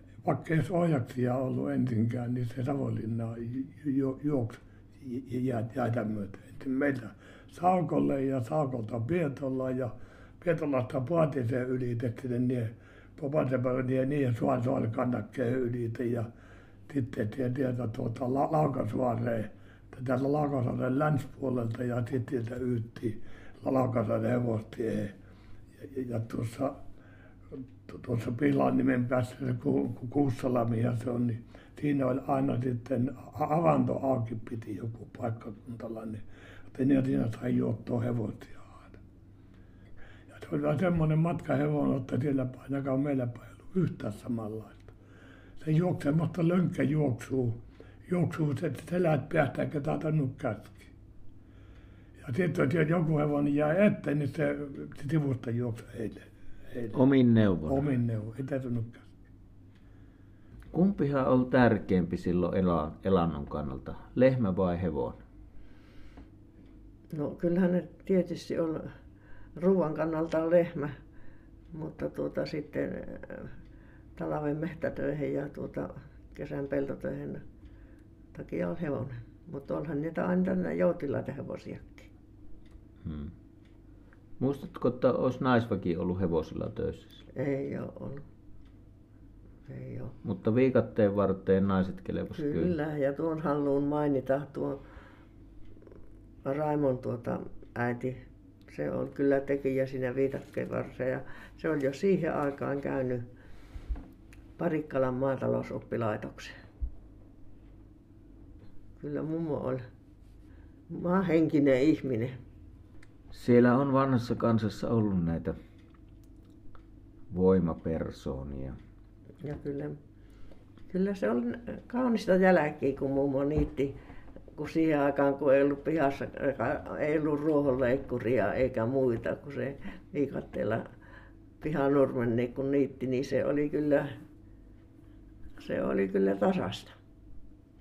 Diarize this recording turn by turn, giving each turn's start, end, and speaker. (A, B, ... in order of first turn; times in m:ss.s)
0:00.2-0:16.3 A
0:16.9-0:25.1 A
0:25.8-0:26.8 A
0:27.8-0:39.0 A
0:40.3-0:44.9 A
0:45.6-0:50.9 A
0:52.2-0:57.0 A
0:56.9-0:57.9 B
0:57.6-0:59.1 A
1:00.7-1:05.2 B
1:07.1-1:08.9 C
1:09.6-1:11.0 C
1:11.7-1:13.5 C
1:14.2-1:17.4 C
1:18.3-1:22.1 C
1:23.0-1:23.3 B
1:24.4-1:27.2 B
1:27.3-1:28.2 C
1:29.7-1:30.1 C
1:30.2-1:32.7 B
1:32.4-1:34.8 C
1:36.4-1:43.2 C
1:44.6-1:46.5 C
1:49.0-1:49.8 C
1:50.9-1:52.4 C
1:53.3-1:55.6 B
1:57.3-1:58.8 B
1:59.4-2:00.0 C
2:00.9-2:03.9 C
2:04.6-2:10.8 C
2:11.6-2:14.1 C
2:15.6-2:16.9 C